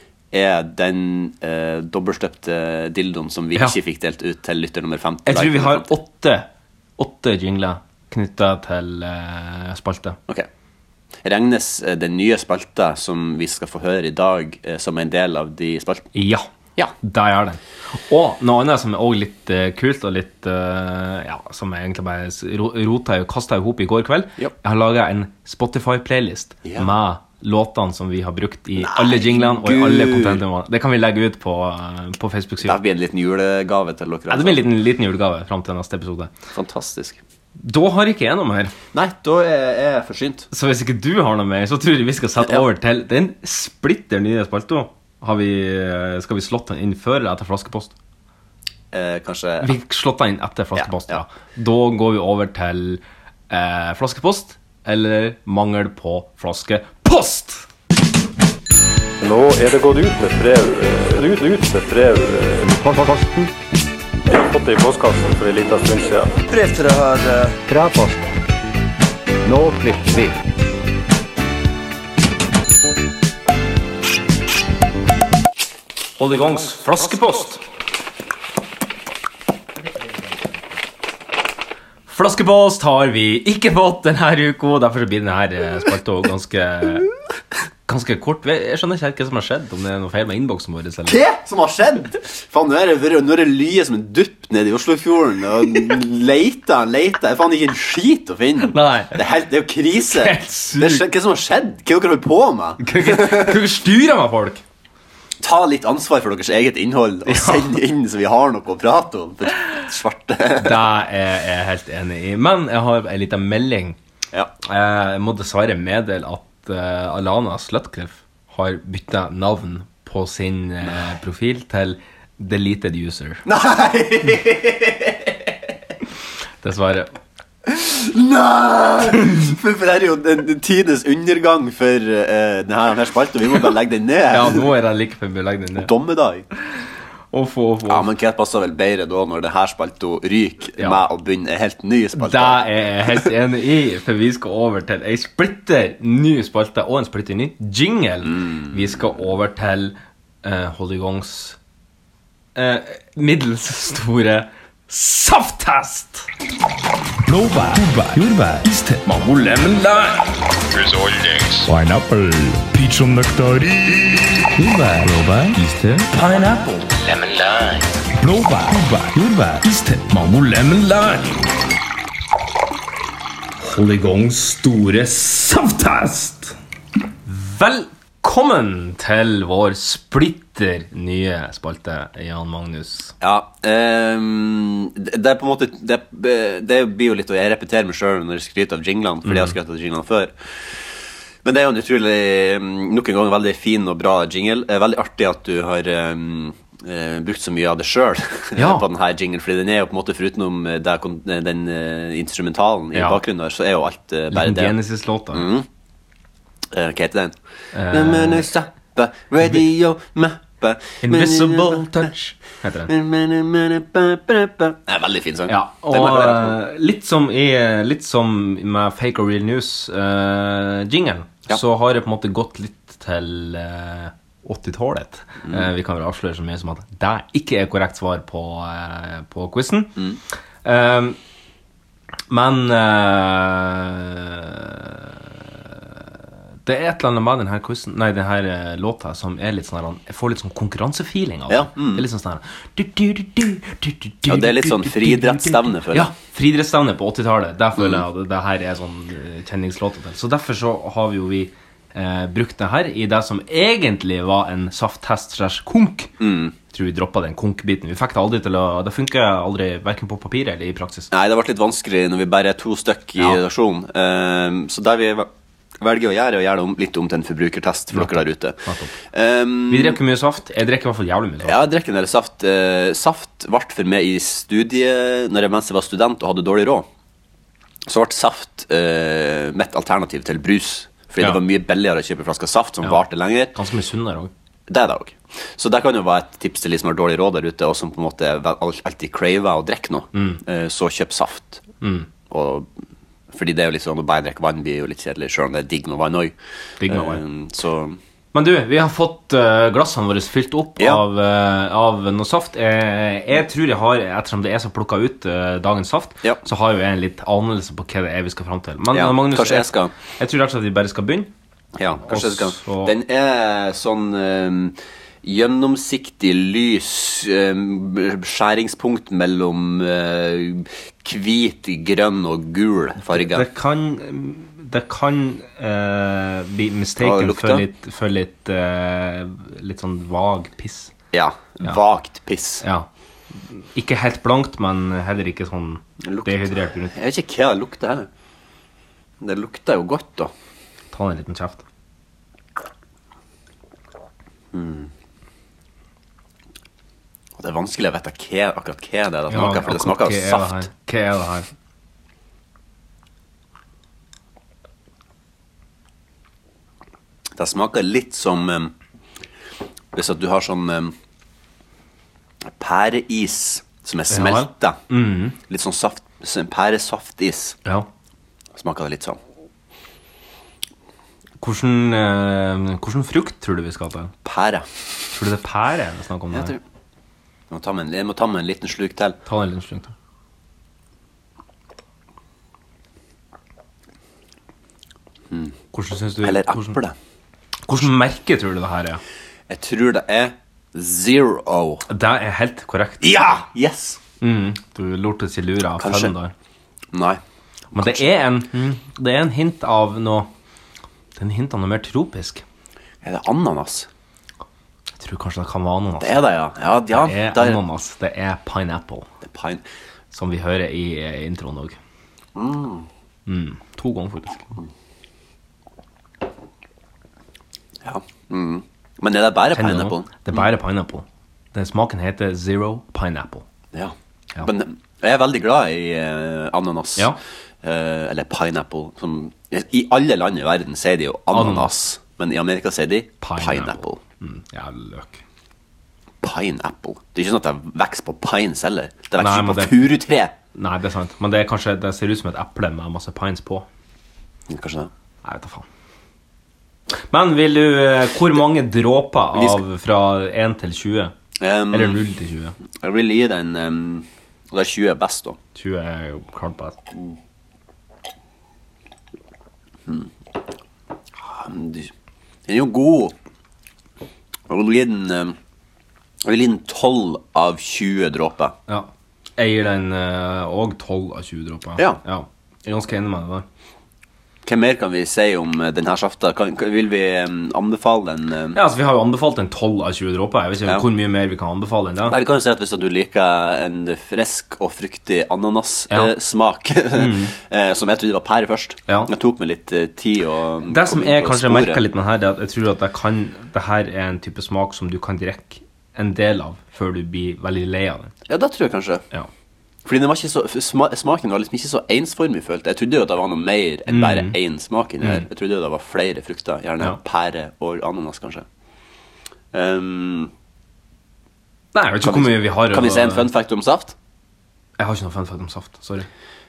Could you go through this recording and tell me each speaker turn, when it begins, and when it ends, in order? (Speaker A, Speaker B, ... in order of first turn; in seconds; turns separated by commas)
Speaker A: 0.3-5.9, Speaker B: 5.3-6.5, Speaker B: 7.0-10.2, Speaker A: 11.2-16.1, Speaker B: 16.1-16.5, Speaker B: 17.0-32.8, Speaker A: 28.8-30.4, Speaker A: 32.6-34.7, Speaker B: 34.3-36.3, Speaker A: 36.5-37.2, Speaker B: 37.6-38.7, Speaker A: 38.9-40.5, Speaker B: 40.5-47.9, Speaker A: 48.9-49.7, Speaker B: 49.6-57.7, Speaker A: 50.8-51.2, Speaker C: 59.2-63.5, Speaker C: 64.3-66.4, Speaker A: 66.7-67.6, Speaker C: 67.7-68.2, Speaker C: 69.5-70.3, Speaker B: 76.2-77.6, Speaker B: 82.1-87.1, Speaker B: 87.9-91.2, Speaker A: 91.1-103.6, Speaker B: 98.6-99.2, Speaker B: 100.0-101.1, Speaker B: 102.8-104.6, Speaker A: 105.4-110.9, Speaker B: 107.3-107.7, Speaker B: 110.6-114.0, Speaker B: 114.6-123.4, Speaker A: 123.5-125.5, Speaker B: 126.6-127.1, Speaker A: 127.7-134.7, Speaker B: 134.3-135.9, Speaker A: 135.8-136.5, Speaker B: 137.3-138.1, Speaker A: 137.9-143.3, Speaker B: 140.8-141.0, Speaker B: 142.2-151.6, Speaker A: 148.3-149.0, Speaker B: 152.6-156.3, Speaker D: 157.2-170.5, Speaker B: 173.6-176.6, Speaker B: 177.3-183.1, Speaker A: 183.2-190.3, Speaker B: 189.2-189.6, Speaker A: 191.4-204.8, Speaker B: 198.6-198.9, Speaker B: 202.9-203.2, Speaker B: 204.3-205.5, Speaker A: 205.3-205.7, Speaker A: 206.7-207.3, Speaker B: 207.7-208.5, Speaker A: 207.9-212.1, Speaker B: 211.0-212.9, Speaker A: 212.9-216.6, Speaker B: 215.5-230.0, Speaker B: 230.6-231.2, Speaker B: 232.3-235.2, Speaker B: 236.7-256.1, Speaker A: 241.5-242.0, Speaker A: 244.3-246.1, Speaker A: 256.2-256.5, Speaker B: 256.7-261.1, Speaker A: 261.1-270.0, Speaker B: 267.9-269.0, Speaker B: 269.7-271.6, Speaker A: 271.4-276.9, Speaker A: 277.9-283.6, Speaker B: 282.8-284.3, Speaker A: 284.7-291.6, Speaker B: 290.1-290.4, Speaker B: 291.8-292.1, Speaker A: 292.3-292.7, Speaker A: 293.3-296.4, Speaker B: 296.8-297.2, Speaker A: 296.9-298.0, Speaker B: 298.3-311.3, Speaker A: 300.8-301.0, Speaker A: 308.9-309.9, Speaker A: 311.8-323.5, Speaker B: 312.1-312.9, Speaker B: 323.1-330.9, Speaker A: 327.0-327.7, Speaker A: 331.1-332.6, Speaker B: 332.6-336.9, Speaker A: 336.0-338.1, Speaker A: 339.2-340.3, Speaker B: 340.9-341.6, Speaker A: 344.5-344.9, Speaker A: 347.4-350.7, Speaker B: 349.3-351.5, Speaker A: 357.4-358.7, Speaker A: 359.9-360.9, Speaker A: 362.5-364.8, Speaker B: 364.1-365.4, Speaker A: 365.5-367.6, Speaker A: 368.5-369.2, Speaker B: 371.4-374.1, Speaker A: 374.2-374.7, Speaker B: 375.1-376.5, Speaker A: 376.3-376.6, Speaker A: 377.5-379.2, Speaker B: 379.3-379.9, Speaker A: 385.3-385.6, Speaker B: 385.7-386.8, Speaker A: 386.2-387.0, Speaker B: 387.7-389.0, Speaker A: 389.5-391.9, Speaker B: 391.9-393.1, Speaker A: 393.0-394.0, Speaker B: 394.2-396.3, Speaker A: 395.8-396.1, Speaker A: 396.9-397.2, Speaker A: 397.7-398.1, Speaker B: 397.8-400.3, Speaker B: 401.2-402.4, Speaker A: 403.0-403.9, Speaker B: 405.0-406.3, Speaker A: 406.0-407.6, Speaker B: 406.9-409.1, Speaker A: 409.2-409.6, Speaker B: 410.1-411.8, Speaker A: 412.4-412.9, Speaker B: 413.3-414.4, Speaker A: 417.8-420.4, Speaker B: 419.5-423.4, Speaker A: 423.7-434.0, Speaker B: 431.3-431.7, Speaker B: 433.2-435.2, Speaker A: 436.2-440.3, Speaker B: 439.2-439.9, Speaker B: 440.6-443.7, Speaker A: 444.5-444.9, Speaker B: 445.2-445.6, Speaker B: 447.1-451.1, Speaker A: 449.3-449.6, Speaker A: 451.4-452.0, Speaker B: 451.7-452.6, Speaker A: 452.7-455.4, Speaker B: 455.6-456.8, Speaker A: 459.9-460.1, Speaker A: 461.2-461.9, Speaker A: 462.5-463.2, Speaker A: 464.5-465.4, Speaker A: 466.2-468.6, Speaker B: 468.7-473.5, Speaker A: 474.4-478.6, Speaker B: 478.5-482.2, Speaker A: 482.1-491.8, Speaker B: 486.9-487.3, Speaker B: 490.7-498.1, Speaker A: 498.3-499.0, Speaker A: 499.9-508.5, Speaker B: 503.9-504.4, Speaker B: 505.0-505.3, Speaker A: 509.5-510.3, Speaker B: 511.7-513.3, Speaker A: 512.0-514.0, Speaker B: 514.8-516.1